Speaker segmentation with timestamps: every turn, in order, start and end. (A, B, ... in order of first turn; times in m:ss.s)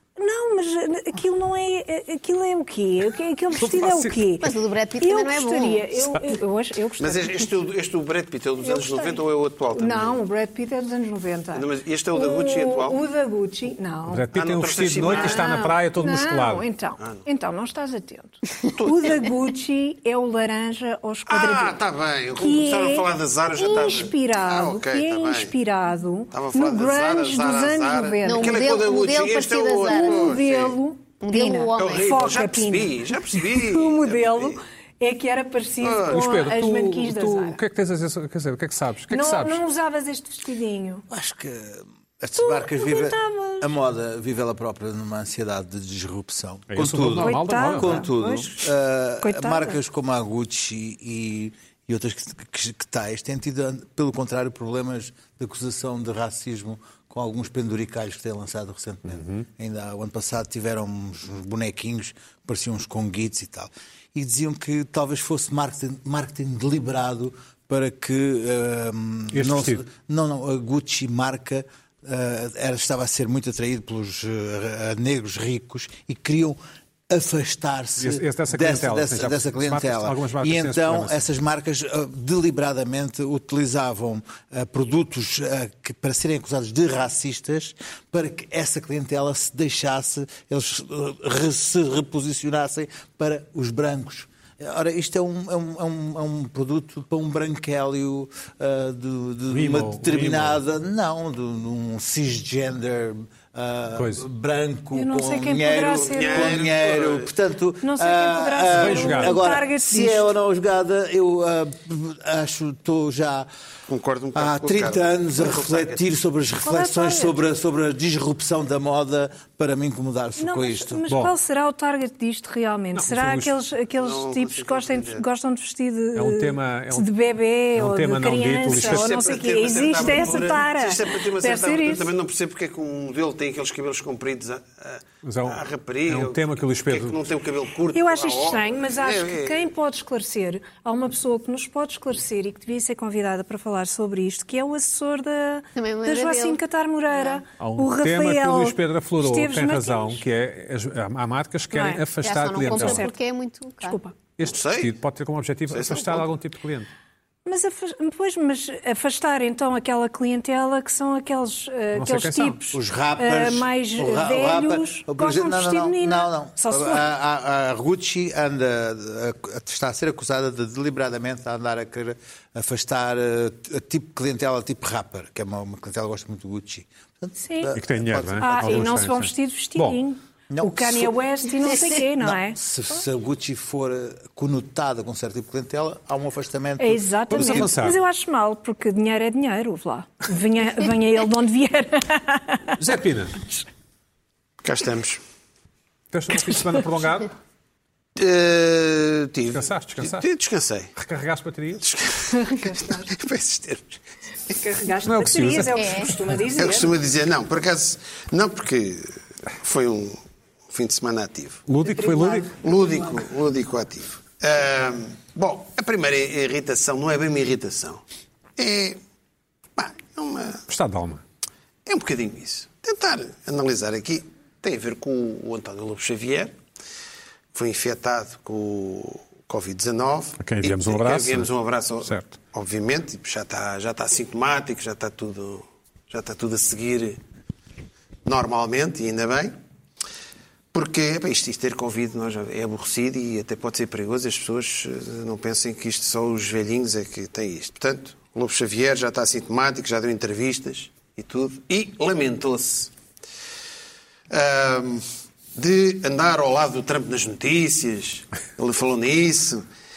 0:00.2-0:07.5 A
0:03.6-0:04.2 B
0:04.4-0:05.8 C
0:07.0-0:10.2 D
0:08.6-0:14.3 A
0:11.5-0:13.0 D
0:14.1-0:16.7 B
0:14.3-0:15.6 D
0:15.0-0:21.8 A
0:18.6-0:19.2 D
0:21.3-0:25.5 D
0:22.4-0:28.6 A
0:26.3-0:30.8 D
0:28.2-0:30.4 C
0:29.9-0:37.6 A
0:31.2-0:32.4 C
0:31.8-0:34.6 D
0:35.8-0:36.2 D
0:36.1-0:39.6 B
0:39.1-0:41.1 A
0:41.1-1:16.6 E
0:42.4-0:43.7 A
0:46.7-0:48.3 B
0:47.2-0:48.6 A
0:49.2-0:49.8 A
0:59.1-0:59.4 B
1:09.3-1:09.8 B
1:17.1-1:53.5 E
1:18.0-1:21.3 B
1:39.5-1:40.6 B
1:44.0-1:44.3 B
1:45.0-1:46.7 A
1:45.8-1:47.3 D
1:47.8-1:50.3 A
1:48.7-1:49.4 B
1:53.9-1:56.0 D
1:54.4-2:01.1 E
1:56.6-1:57.3 A
2:00.4-2:12.1 A
2:01.1-2:01.3 B
2:02.9-2:03.5 B
2:04.0-2:05.2 D
2:06.2-2:07.1 B
2:07.8-2:09.1 B
2:08.7-2:19.7 D
2:15.2-2:17.2 B
2:17.9-2:30.2 A
2:25.8-2:26.6 C
2:27.6-2:33.1 B
2:31.7-2:32.1 A
2:32.2-2:34.0 C
2:32.6-2:33.1 A
2:33.8-2:34.2 A
2:34.4-2:36.9 B
2:34.4-2:35.0 D
2:35.7-2:36.3 D
2:37.4-2:47.1 A
2:41.9-2:42.7 B
2:42.7-2:59.0 E
2:57.4-2:57.8 A
2:57.7-3:00.0 B
2:58.4-3:02.6 A
3:00.5-3:07.8 E
3:06.8-3:12.8 A
3:07.3-3:08.0 B
3:12.8-3:13.4 B
3:14.6-3:15.2 D
3:16.1-3:17.3 B
3:18.2-3:20.9 D
3:19.5-3:20.3 B
3:21.0-3:21.8 B
3:21.8-3:24.0 D
3:22.4-3:23.1 A
3:24.5-3:26.9 A
3:25.0-3:26.1 B
3:25.8-3:26.1 C
3:26.6-3:31.7 D
3:31.7-3:32.5 B
3:31.8-3:32.6 A
3:32.5-3:38.0 D
3:38.6-3:39.0 D
3:39.8-3:40.6 D
3:40.7-3:41.2 B
3:41.9-3:46.5 D
3:47.5-3:57.2 D
3:50.4-3:51.5 B
3:52.0-3:52.4 B
3:58.2-3:59.5 D
4:00.7-4:12.9 D
4:14.3-4:19.6 D